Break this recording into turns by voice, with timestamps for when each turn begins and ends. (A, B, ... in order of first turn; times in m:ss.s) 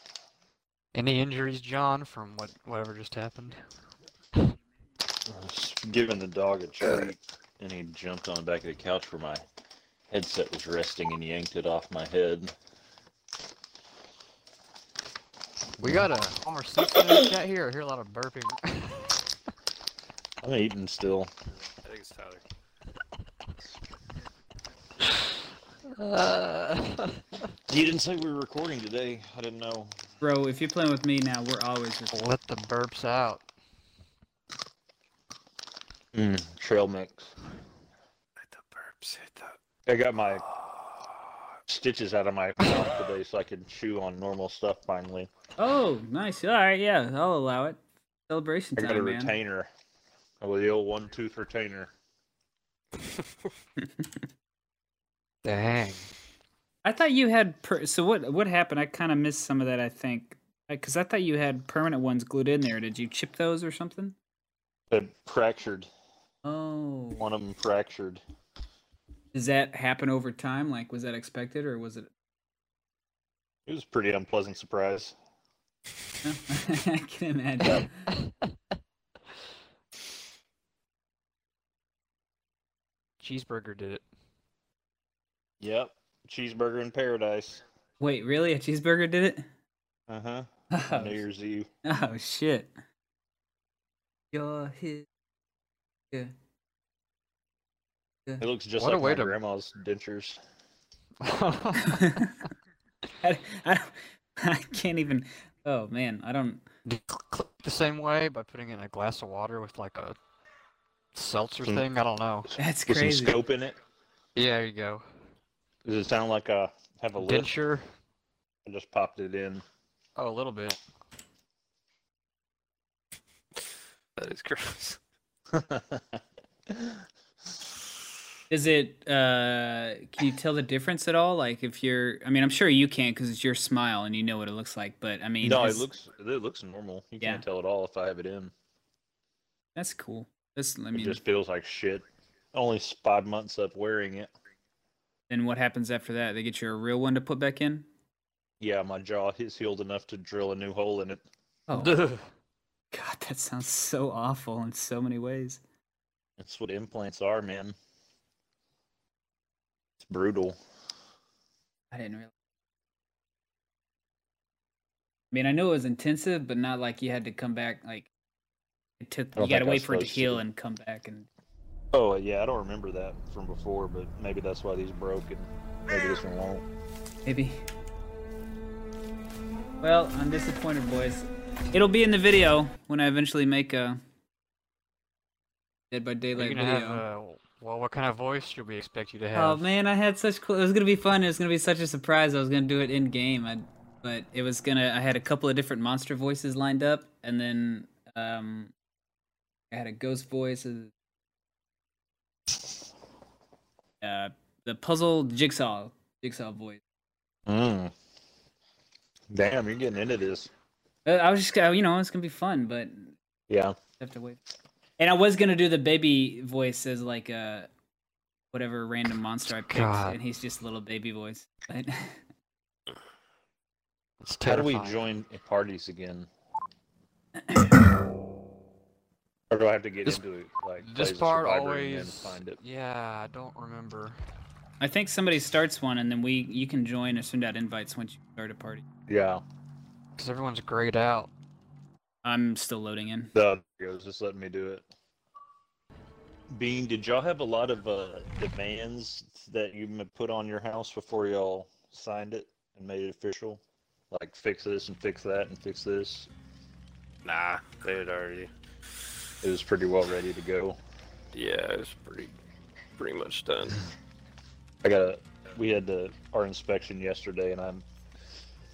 0:00.9-0:03.6 A
0:05.3-0:09.4 B
0:10.1-0:12.5 B
0:15.8-0:19.3 A
0:20.4-0:21.3 B
0:21.8-0:22.4 C
0:25.9-0:27.4 A
0:27.7-0:30.0 B
0:30.2-0:32.3 D
0:32.1-0:33.4 A
0:36.1-0:37.3 B
0:38.4-0:39.6 C
0:39.9-0:40.4 B
0:41.7-0:45.3 B
0:45.6-0:49.4 D
0:48.8-0:49.7 B
0:50.4-0:51.9 B
0:55.4-0:56.1 A
0:56.8-1:04.2 D
1:04.9-1:05.9 B
1:06.4-1:07.3 D
1:07.2-1:08.2 B
1:09.3-1:12.1 D
1:13.7-1:15.2 B
1:16.2-1:18.1 D
1:17.8-1:18.3 A
1:23.2-1:24.0 A
1:25.6-1:27.6 B
1:28.0-1:29.5 D
1:30.1-1:31.7 B
1:30.7-1:31.2 D
1:31.9-1:32.7 D
1:34.3-1:35.1 D
1:38.4-1:40.4 B
1:38.8-1:39.4 A
1:41.2-1:42.2 A
1:41.9-1:42.4 D
1:43.2-1:46.6 D
1:46.8-1:50.2 A
1:51.1-1:52.5 A
1:52.5-1:53.8 B
1:52.6-1:53.4 D
1:54.4-1:55.0 A
1:55.8-1:57.5 B
1:57.2-1:57.9 A
1:58.7-1:59.6 B
2:00.2-2:00.8 A
2:04.2-2:05.0 C
2:05.5-2:06.2 B
2:08.5-2:15.9 D
2:15.4-2:18.5 B
2:19.8-2:21.2 D
2:20.9-2:22.0 B
2:22.5-2:24.3 B
2:25.3-2:27.9 D
2:28.6-2:31.2 B
2:31.7-2:32.0 D
2:32.9-2:35.6 D
2:36.4-2:37.8 B
2:40.0-2:40.6 B
2:41.9-2:42.3 D
2:45.3-2:48.1 D
2:49.0-2:51.3 D
2:49.4-2:50.4 B
2:51.9-2:56.6 B
2:57.3-2:57.6 D
2:59.8-3:04.0 D
3:05.9-3:07.0 D
3:06.4-3:09.6 A
3:09.3-3:18.7 D
3:19.7-3:20.9 D
3:24.0-3:26.8 D
3:27.5-3:27.9 B
3:29.3-3:30.5 B
3:31.0-3:33.2 D
3:33.5-3:33.8 B
3:34.0-3:34.4 D
3:35.0-3:37.7 D
3:38.5-3:42.2 D
3:39.5-3:40.2 A
3:44.2-3:45.0 A
3:44.5-3:46.3 B
3:47.5-3:47.8 D
3:49.5-3:52.6 B
3:50.8-3:54.2 A
3:54.8-3:58.8 D
3:59.1-3:59.4 B
4:00.2-4:01.3 A
4:02.2-4:03.3 D
4:03.4-4:04.9 B
4:06.5-4:16.3 B
4:17.2-4:18.5 C
4:19.4-4:20.8 B
4:21.4-4:22.4 C
4:23.0-4:23.8 C
4:24.8-4:27.8 B